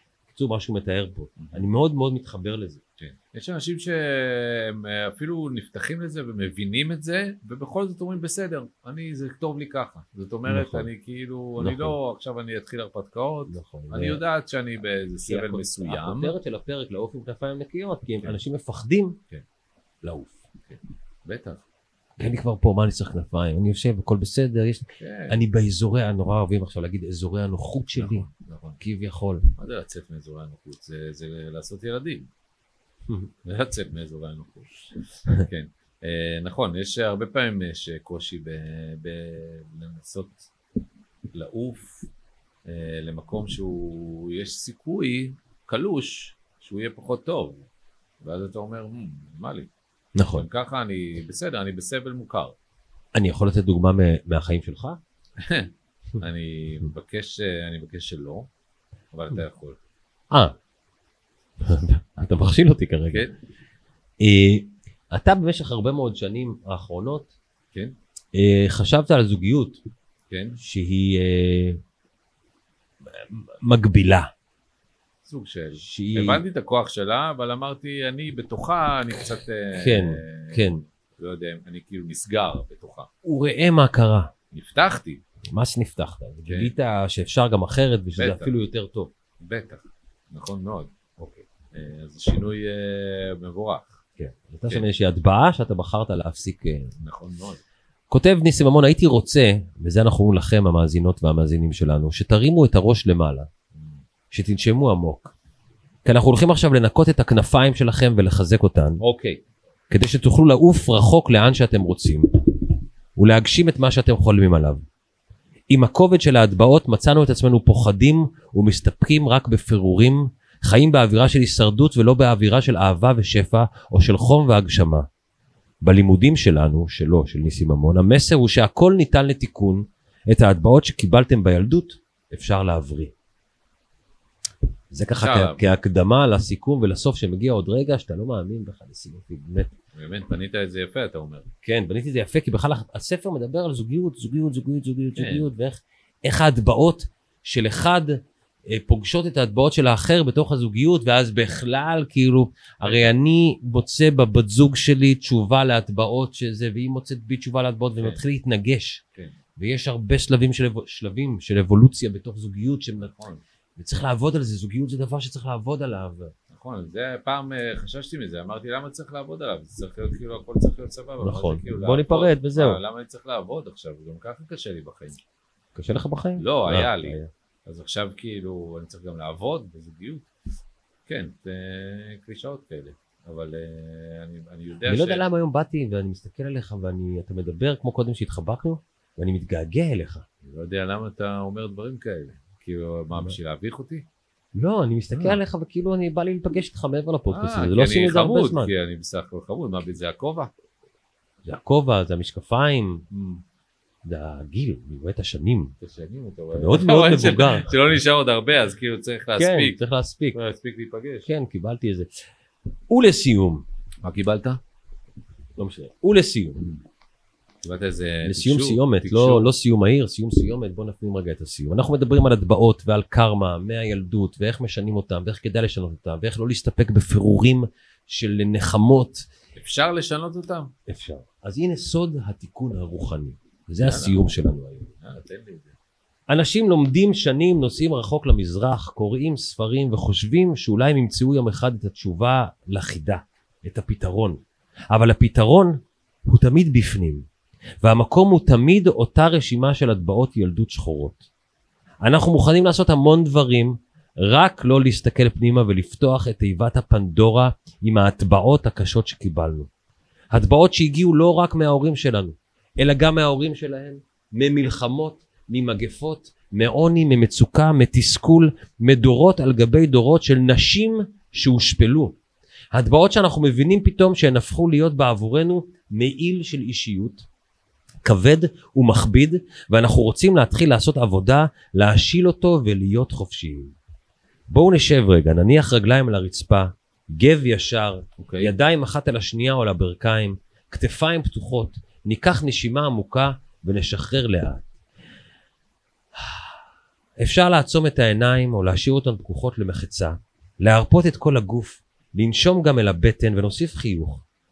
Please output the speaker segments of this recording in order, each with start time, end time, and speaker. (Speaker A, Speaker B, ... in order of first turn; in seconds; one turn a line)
Speaker A: 0.3-2.8
Speaker B: 1.4-1.6
Speaker B: 3.0-16.3
Speaker A: 10.5-10.9
Speaker A: 11.6-11.9
Speaker A: 13.5-14.2
Speaker A: 15.2-19.2
Speaker A: 20.0-20.4
Speaker B: 20.7-21.6
Speaker A: 22.2-28.3
Speaker B: 25.0-25.4
Speaker B: 28.0-28.8
Speaker A: 28.8-29.5
Speaker B: 29.6-32.3
Speaker B: 33.4-40.5
Speaker B: 41.3-42.1
Speaker B: 42.6-47.6
Speaker B: 48.2-49.7
Speaker A: 50.1-50.5
Speaker B: 50.3-52.5
Speaker A: 53.1-55.0
Speaker B: 55.4-58.5
Speaker B: 59.1-59.8
Speaker A: 61.6-63.3
Speaker A: 64.2-67.3
Speaker A: 68.3-69.8
Speaker B: 70.3-70.6
Speaker A: 70.6-71.8
Speaker A: 73.1-74.3
Speaker B: 75.2-83.1
Speaker A: 75.8-76.4
Speaker A: 79.7-80.8
Speaker A: 83.2-84.3
Speaker B: 84.5-85.2
Speaker A: 85.5-89.1
Speaker B: 86.5-86.7
Speaker B: 88.2-88.5
Speaker B: 89.4-90.9
Speaker A: 91.2-91.4
Speaker B: 91.7-94.0
Speaker A: 94.2-96.9
Speaker B: 97.0-97.6
Speaker A: 98.1-103.5
Speaker B: 103.7-104.0
Speaker A: 104.3-105.3
Speaker A: 106.0-109.0
Speaker B: 109.0-109.4
Speaker A: 109.9-112.4
Speaker A: 113.2-114.8
Speaker A: 115.7-125.1
Speaker A: 125.8-133.1
Speaker A: 134.9-139.7
Speaker B: 135.2-135.6
Speaker B: 139.9-141.5
Speaker A: 141.6-159.0
Speaker B: 145.2-145.5
Speaker B: 152.8-153.2
Speaker A: 159.6-163.1
Speaker B: 163.0-163.4
Speaker A: 163.8-166.3
Speaker B: 166.5-175.2
Speaker A: 171.2-172.8
Speaker A: 175.7-177.3
Speaker B: 176.4-180.3
Speaker B: 181.1-185.2
Speaker A: 184.9-190.2
Speaker B: 190.4-194.0
Speaker A: 194.6-198.7
Speaker B: 197.3-200.5
Speaker A: 201.4-203.0
Speaker B: 203.1-203.4
Speaker A: 204.1-205.7
Speaker B: 205.8-209.8
Speaker A: 206.5-207.7
Speaker A: 209.4-210.4
Speaker B: 210.3-211.3
Speaker A: 211.2-212.1
Speaker A: 212.9-213.6
Speaker B: 214.0-214.6
Speaker A: 215.6-216.6
Speaker B: 217.6-219.5
Speaker A: 218.2-229.2
Speaker B: 229.6-230.7
Speaker A: 230.9-234.9
Speaker B: 233.8-234.3
Speaker B: 235.0-235.7
Speaker A: 236.3-244.4
Speaker A: 244.9-247.2
Speaker A: 247.8-251.2
Speaker A: 252.0-259.7
Speaker A: 260.3-272.1
Speaker A: 272.7-277.2
Speaker A: 278.0-283.7
Speaker A: 284.5-294.7
Speaker B: 288.2-288.5
Speaker A: 296.1-296.5
Speaker A: 297.2-304.2